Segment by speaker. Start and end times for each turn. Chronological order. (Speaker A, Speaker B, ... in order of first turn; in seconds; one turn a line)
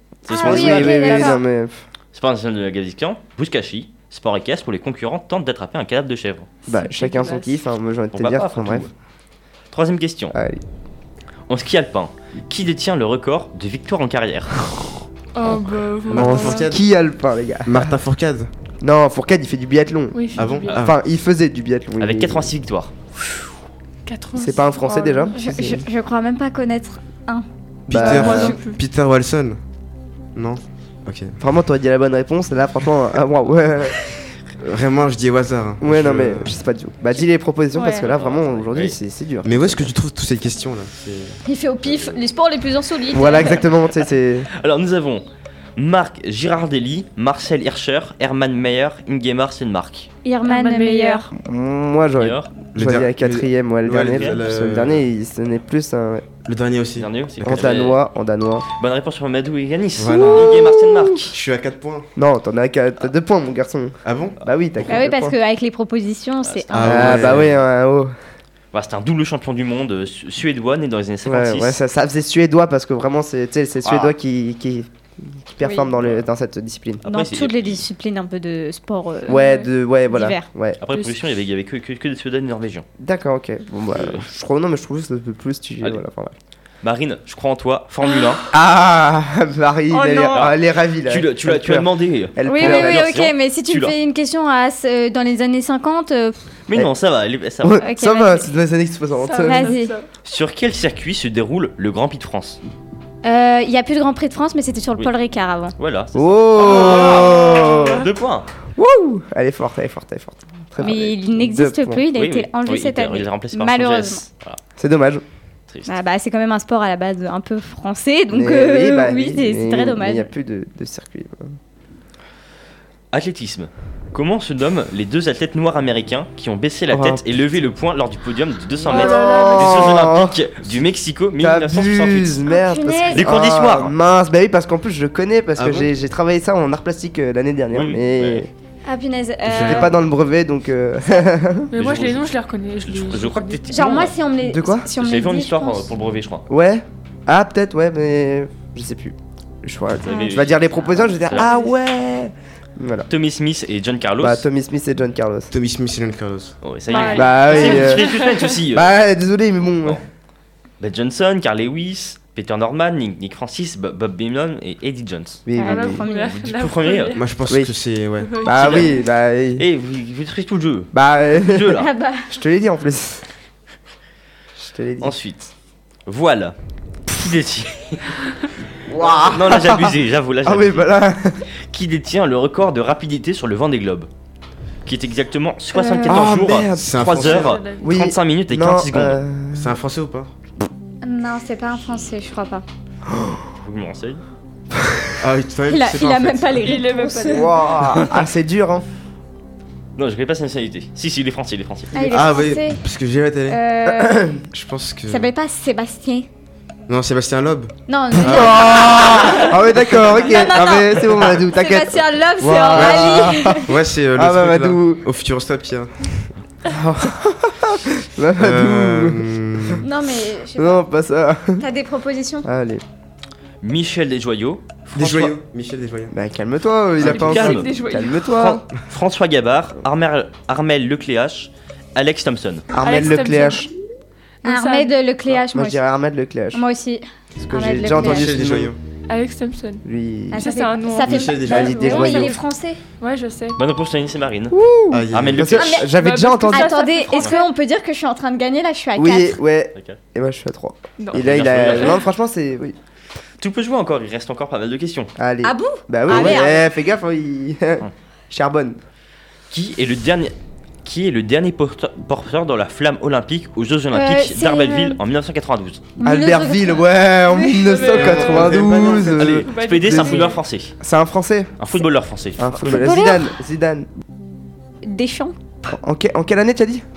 Speaker A: 0.2-1.1
Speaker B: 0.3-1.4
Speaker C: 0.3-1.8
Speaker D: 0.6-1.3
Speaker A: 2.1-6.5
Speaker D: 6.6-7.6
Speaker C: 6.7-8.9
Speaker A: 8.1-8.9
Speaker A: 9.7-10.3
Speaker C: 10.3-10.6
Speaker A: 11.5-14.7
Speaker D: 15.3-16.7
Speaker E: 16.1-16.8
Speaker C: 16.1-18.0
Speaker E: 17.6-18.5
Speaker C: 18.8-22.5
Speaker D: 20.1-20.8
Speaker E: 20.4-20.9
Speaker A: 22.0-22.9
Speaker D: 24.1-25.3
Speaker C: 24.3-25.9
Speaker B: 25.3-27.4
Speaker E: 27.9-29.6
Speaker C: 27.9-28.6
Speaker D: 27.9-28.8
Speaker B: 28.0-28.6
Speaker E: 30.3-31.4
Speaker C: 31.4-34.0
Speaker E: 34.6-36.5
Speaker C: 35.8-39.9
Speaker D: 37.7-38.1
Speaker A: 38.1-39.0
Speaker E: 39.4-41.4
Speaker B: 41.4-43.6
Speaker C: 43.1-44.5
Speaker A: 44.5-50.1
Speaker B: 50.2-51.3
Speaker D: 50.4-51.3
Speaker C: 51.4-56.3
Speaker A: 52.2-52.5
Speaker E: 52.7-55.0
Speaker A: 54.0-54.4
Speaker E: 56.4-57.6
Speaker A: 57.0-58.0
Speaker C: 57.4-58.7
Speaker A: 58.8-61.3
Speaker E: 60.0-60.6
Speaker C: 60.1-61.2
Speaker E: 61.3-62.1
Speaker C: 62.1-65.3
Speaker E: 64.0-64.4
Speaker B: 64.9-67.2
Speaker E: 66.7-67.6
Speaker C: 66.8-68.1
Speaker A: 68.7-71.8
Speaker C: 71.2-77.0
Speaker A: 73.8-74.1
Speaker B: 75.6-75.9
Speaker A: 77.0-77.8
Speaker B: 77.0-80.5
Speaker C: 79.3-80.8
Speaker A: 80.8-82.8
Speaker D: 80.9-81.2
Speaker C: 83.0-86.3
Speaker A: 83.9-84.2
Speaker A: 86.8-88.4
Speaker C: 88.5-93.0
Speaker A: 90.3-93.9
Speaker B: 92.4-96.4
Speaker A: 96.7-97.8
Speaker C: 97.6-99.7
Speaker B: 97.8-98.5
Speaker D: 99.2-100.1
Speaker B: 99.4-99.9
Speaker A: 100.2-102.6
Speaker B: 103.2-105.7
Speaker A: 105.8-108.5
Speaker C: 106.1-108.0
Speaker D: 106.8-108.0
Speaker C: 108.7-112.0
Speaker B: 110.8-114.2
Speaker A: 112.1-114.6
Speaker C: 114.8-115.2
Speaker A: 115.7-116.0
Speaker B: 115.8-120.3
Speaker C: 118.3-121.6
Speaker A: 123.1-132.4
Speaker C: 126.9-127.2
Speaker D: 128.9-129.7
Speaker C: 128.9-130.4
Speaker C: 131.4-138.5
Speaker B: 132.5-133.3
Speaker A: 133.1-133.9
Speaker E: 135.6-135.9
Speaker A: 137.7-138.5
Speaker B: 138.8-139.9
Speaker E: 139.5-139.9
Speaker C: 139.5-141.7
Speaker D: 141.7-143.6
Speaker A: 141.8-142.3
Speaker A: 142.8-144.1
Speaker B: 143.7-145.9
Speaker C: 144.4-144.9
Speaker A: 144.9-146.4
Speaker C: 146.5-153.1
Speaker A: 150.0-150.7
Speaker A: 153.1-154.4
Speaker C: 154.2-155.5
Speaker E: 155.5-156.5
Speaker A: 156.6-159.0
Speaker D: 156.9-158.4
Speaker C: 157.1-158.2
Speaker C: 158.7-160.0
Speaker A: 160.8-165.4
Speaker C: 165.4-166.0
Speaker B: 165.6-166.4
Speaker D: 165.6-167.2
Speaker A: 166.2-167.2
Speaker E: 167.1-168.4
Speaker C: 167.5-167.8
Speaker D: 168.2-168.8
Speaker C: 168.4-169.7
Speaker A: 168.5-168.9
Speaker A: 169.6-171.9
Speaker C: 170.9-173.2
Speaker B: 171.8-172.3
Speaker C: 174.6-175.1
Speaker A: 175.0-175.5
Speaker A: 176.1-176.5
Speaker A: 177.1-178.2
Speaker C: 178.8-181.4
Speaker A: 179.1-180.9
Speaker A: 181.7-184.1
Speaker A: 184.8-189.2
Speaker B: 185.7-186.2
Speaker C: 186.0-187.2
Speaker E: 186.5-187.6
Speaker D: 187.2-187.8
Speaker C: 187.8-189.8
Speaker E: 189.5-190.3
Speaker B: 191.0-192.6
Speaker C: 193.1-193.5
Speaker A: 193.6-194.2
Speaker C: 194.8-195.1
Speaker E: 195.2-196.8
Speaker B: 195.7-197.5
Speaker D: 196.6-197.6
Speaker C: 197.3-198.8
Speaker A: 200.0-202.1
Speaker B: 201.9-202.8
Speaker E: 202.1-203.6
Speaker B: 203.5-204.3
Speaker C: 203.9-204.4
Speaker E: 204.5-205.3
Speaker B: 205.1-206.3
Speaker E: 206.9-209.1
Speaker B: 207.9-213.7
Speaker C: 208.2-215.0
Speaker E: 212.7-216.3
Speaker C: 216.7-219.8
Speaker E: 218.4-219.8
Speaker B: 219.8-220.8
Speaker C: 220.6-221.6
Speaker B: 221.6-222.5
Speaker C: 222.4-222.8
Speaker A: 223.6-225.3
Speaker E: 224.9-226.1
Speaker C: 226.1-228.6
Speaker A: 227.0-227.7
Speaker D: 227.0-228.2
Speaker A: 228.3-232.7
Speaker C: 232.7-233.7
Speaker D: 232.8-233.7
Speaker D: 234.4-234.9
Speaker B: 234.4-235.8
Speaker C: 235.5-236.6
Speaker B: 236.5-238.3
Speaker C: 237.4-238.7
Speaker E: 237.9-238.8
Speaker D: 239.1-239.8
Speaker C: 239.8-240.5
Speaker B: 240.3-242.8
Speaker D: 240.3-242.4
Speaker E: 241.0-242.3
Speaker C: 241.4-242.4
Speaker D: 243.0-243.6
Speaker A: 243.6-244.6
Speaker C: 244.5-246.7
Speaker E: 244.9-245.7
Speaker A: 245.1-245.8
Speaker B: 245.6-245.9
Speaker D: 245.9-247.5
Speaker B: 246.5-249.4
Speaker C: 248.9-252.8
Speaker D: 251.0-252.0
Speaker A: 251.1-252.0
Speaker A: 253.4-255.1
Speaker C: 255.2-258.8
Speaker B: 255.4-256.6
Speaker A: 259.5-265.9
Speaker B: 263.9-265.0
Speaker B: 266.0-266.8
Speaker C: 266.0-270.3
Speaker D: 267.5-268.5
Speaker E: 267.8-269.2
Speaker A: 269.0-270.7
Speaker D: 269.4-270.4
Speaker C: 270.8-271.5
Speaker A: 271.6-272.7
Speaker C: 272.4-273.9
Speaker B: 272.6-273.3
Speaker B: 274.8-275.4
Speaker C: 275.7-276.8